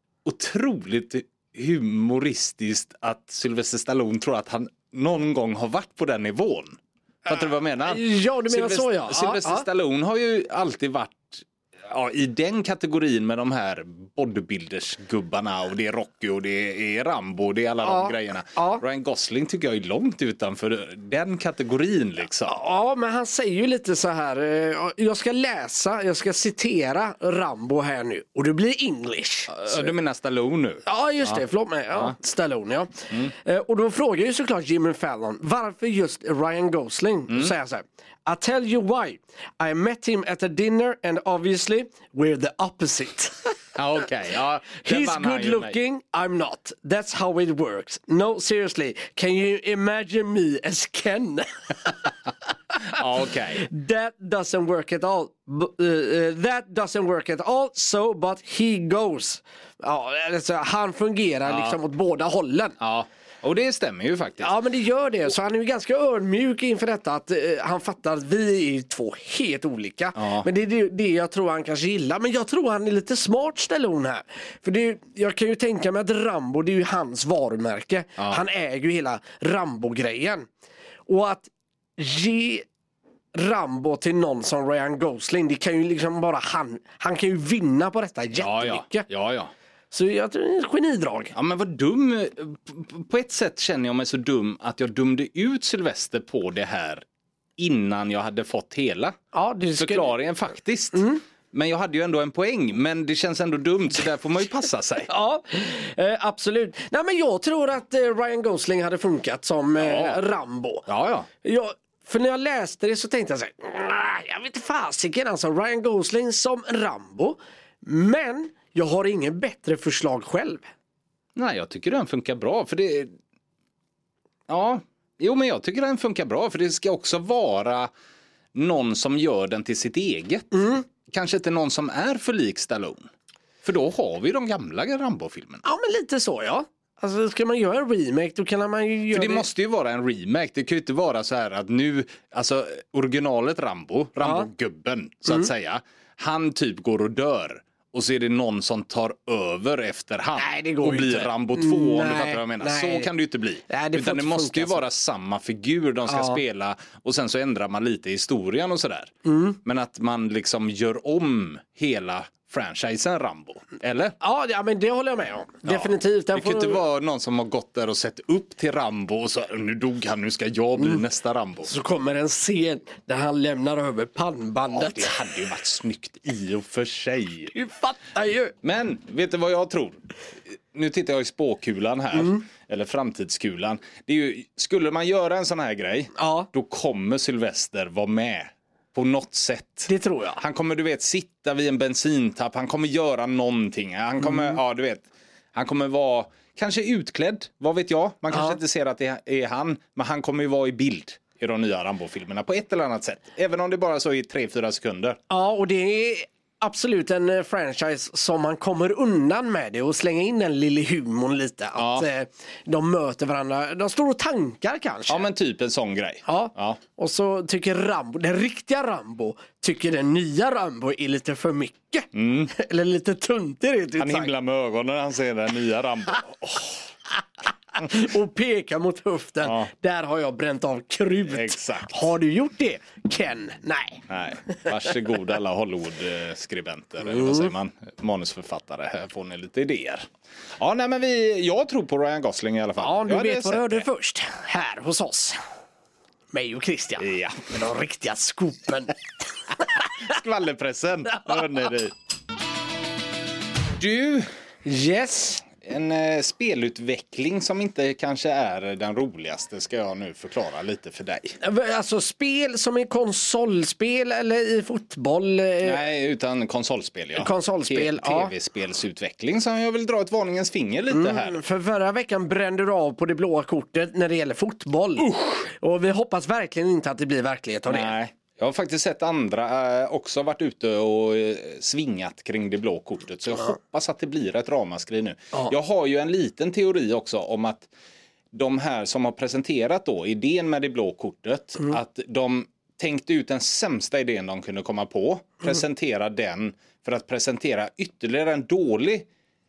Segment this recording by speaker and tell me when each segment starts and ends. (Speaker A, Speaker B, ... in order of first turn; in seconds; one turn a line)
Speaker A: 0.2-22.5
Speaker B: 7.2-9.7
Speaker B: 17.8-18.8
Speaker B: 22.4-29.9
Speaker A: 29.5-31.4
Speaker B: 30.8-43.5
Speaker A: 43.7-45.8
Speaker B: 44.8-52.1
Speaker A: 52.8-53.6
Speaker B: 53.5-62.8
Speaker A: 61.5-61.8
Speaker A: 62.8-64.5
Speaker B: 64.4-80.5
Speaker A: 70.2-70.5
Speaker B: 81.1-82.7
Speaker B: 83.3-89.1
Speaker A: 88.4-89.5
Speaker B: 89.9-91.3
Speaker A: 91.3-97.0
Speaker A: 97.6-99.2
Speaker B: 99.3-100.1
Speaker A: 99.8-105.1
Speaker B: 100.9-101.2
Speaker B: 105.1-110.9
Speaker A: 109.8-110.2
Speaker A: 110.9-111.3
Speaker B: 111.4-120.7
Speaker A: 121.3-123.1
Speaker A: 124.5-127.9
Speaker A: 128.5-130.5
Speaker B: 130.5-130.8
Speaker A: 131.0-133.1
Speaker A: 133.6-135.6
Speaker B: 135.6-139.4
Speaker A: 139.1-159.1
Speaker B: 144.2-144.5
Speaker B: 150.4-153.1
Speaker B: 153.7-154.8
Speaker B: 156.1-156.4
Speaker B: 159.2-159.6
Speaker A: 159.6-164.2
Speaker B: 164.2-166.8
Speaker A: 165.6-171.7
Speaker B: 171.7-175.2
Speaker A: 174.7-177.5
Speaker B: 177.5-178.5
Speaker A: 178.6-180.0
Speaker A: 180.7-205.2
Speaker B: 182.1-182.4
Speaker B: 186.1-186.5
Speaker B: 189.9-190.4
Speaker B: 205.3-215.2
Speaker A: 211.8-212.1
Speaker A: 215.1-216.8
Speaker B: 216.2-224.3
Speaker A: 222.1-222.5
Speaker A: 224.0-226.8
Speaker B: 227.8-234.7
Speaker A: 229.4-229.7
Speaker A: 231.3-232.1
Speaker A: 234.1-243.8
Speaker B: 237.1-237.5
Speaker B: 242.8-245.4
Speaker B: 246.3-249.0
Speaker A: 247.0-247.5
Speaker A: 249.8-251.9
Speaker A: 253.8-254.3
Speaker B: 254.6-255.4
Speaker A: 255.6-261.4
Speaker B: 261.4-265.8
Speaker A: 265.6-271.4
Speaker B: 267.2-268.3
Speaker B: 270.9-277.9
Speaker A: 277.7-287.7
Speaker A: 288.3-299.1